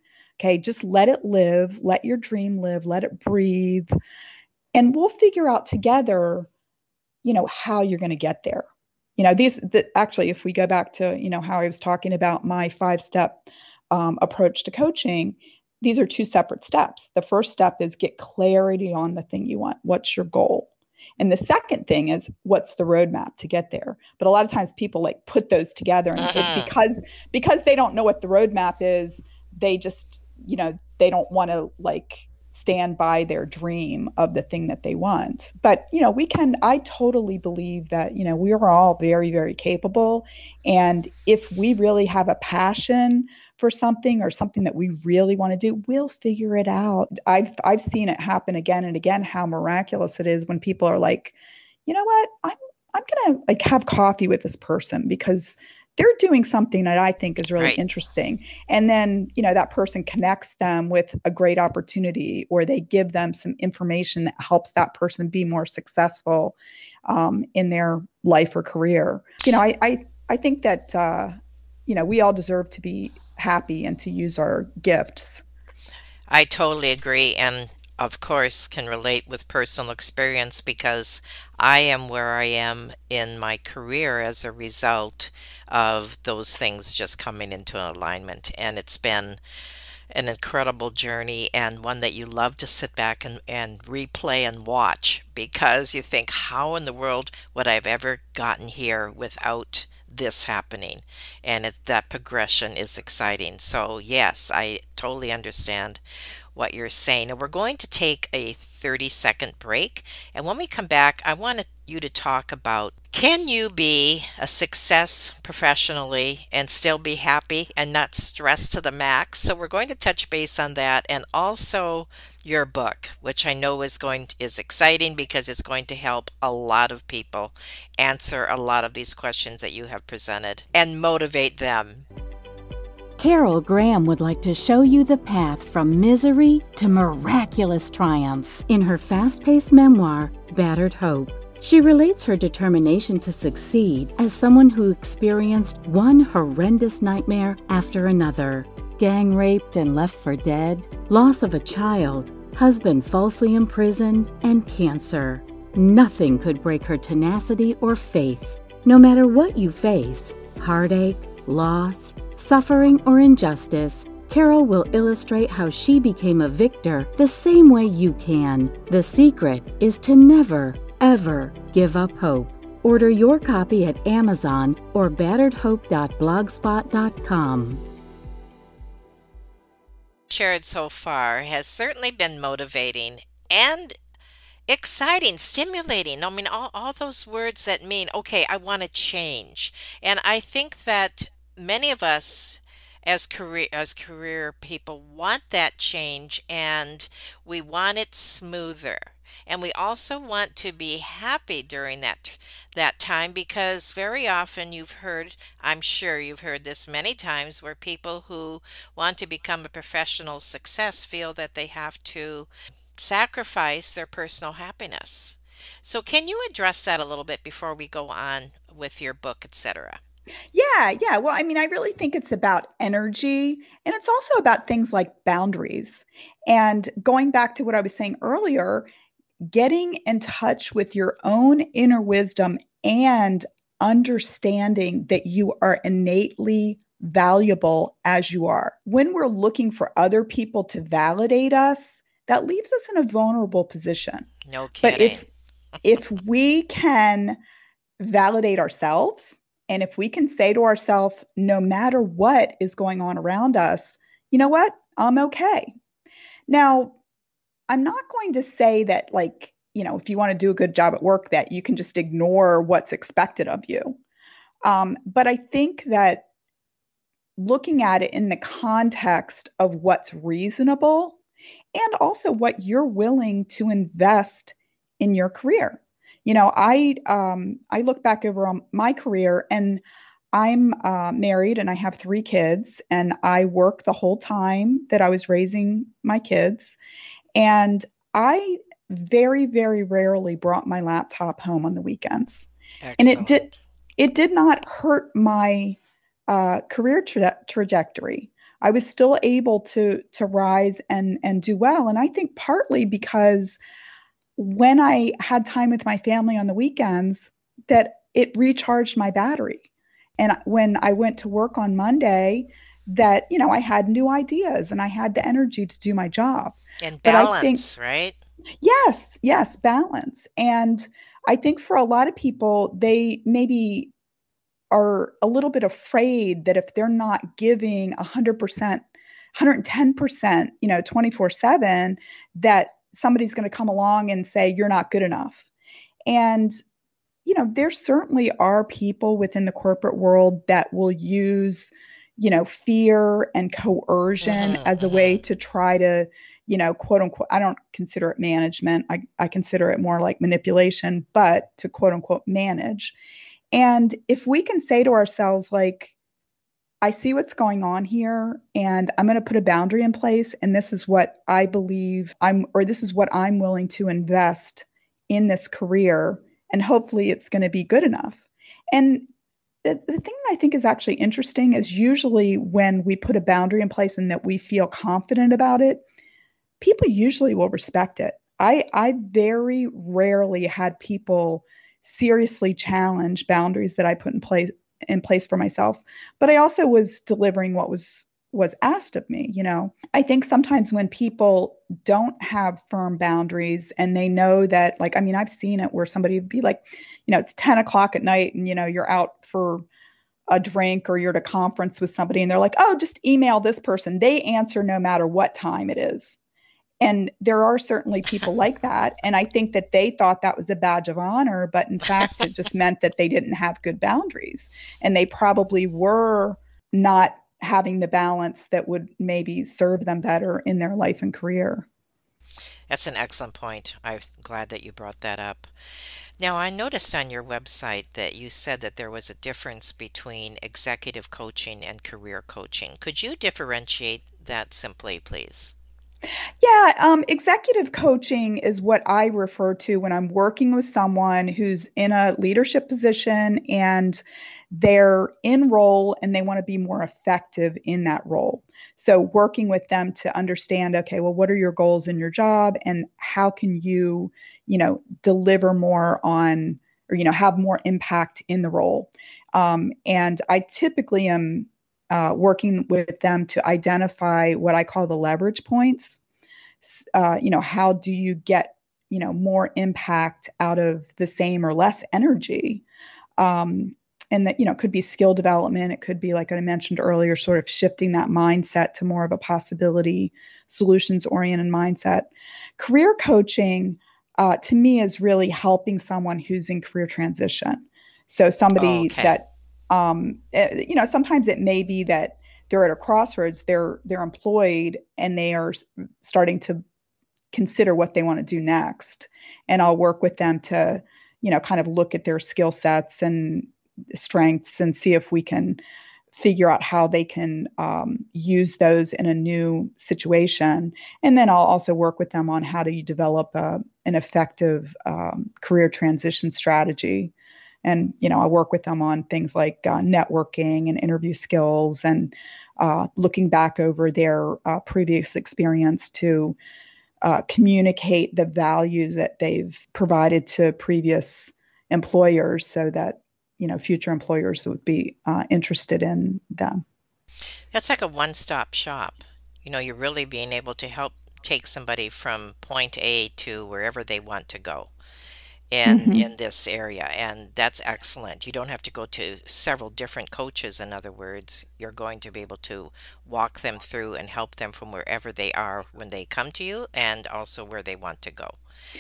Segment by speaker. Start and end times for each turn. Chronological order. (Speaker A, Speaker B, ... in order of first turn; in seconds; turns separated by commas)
Speaker A: 0.4-3.9, Speaker A: 4.7-6.5, Speaker A: 7.2-8.7, Speaker A: 9.2-20.7, Speaker A: 21.2-51.3, Speaker B: 26.2-26.7, Speaker A: 51.9-66.5, Speaker A: 67.1-75.4, Speaker B: 76.3-89.4, Speaker B: 90.1-106.0, Speaker B: 106.5-132.1, Speaker C: 133.2-177.8, Speaker B: 180.3-184.0, Speaker B: 184.7-220.0, Speaker A: 220.5-228.9, Speaker A: 229.5-244.3, Speaker B: 244.5-245.2, Speaker A: 244.8-245.2, Speaker A: 245.8-247.4, Speaker A: 248.0-255.7, Speaker A: 256.5-256.9, Speaker A: 257.7-264.0, Speaker A: 264.6-266.2, Speaker A: 267.4-271.2, Speaker A: 271.7-279.8, Speaker A: 280.3-286.8, Speaker A: 287.4-293.4, Speaker B: 292.8-293.6, Speaker A: 294.0-303.6, Speaker A: 304.4-309.6, Speaker A: 310.2-317.6, Speaker B: 316.8-318.2, Speaker A: 318.6-323.9, Speaker A: 324.7-335.4, Speaker A: 336.1-336.6, Speaker A: 337.2-352.9, Speaker B: 344.2-345.2, Speaker A: 353.5-355.9, Speaker A: 356.8-368.2, Speaker A: 368.7-369.1, Speaker A: 369.6-375.8, Speaker A: 376.6-399.6, Speaker A: 400.3-406.2, Speaker A: 406.8-421.7, Speaker B: 422.7-425.5, Speaker B: 426.2-435.5, Speaker A: 436.4-466.0, Speaker A: 466.6-472.6, Speaker A: 473.2-496.6, Speaker B: 488.6-489.1, Speaker A: 497.3-505.6, Speaker A: 506.1-517.1, Speaker A: 517.6-526.4, Speaker A: 527.0-536.6, Speaker B: 537.5-544.7, Speaker B: 545.5-558.4, Speaker A: 545.7-546.1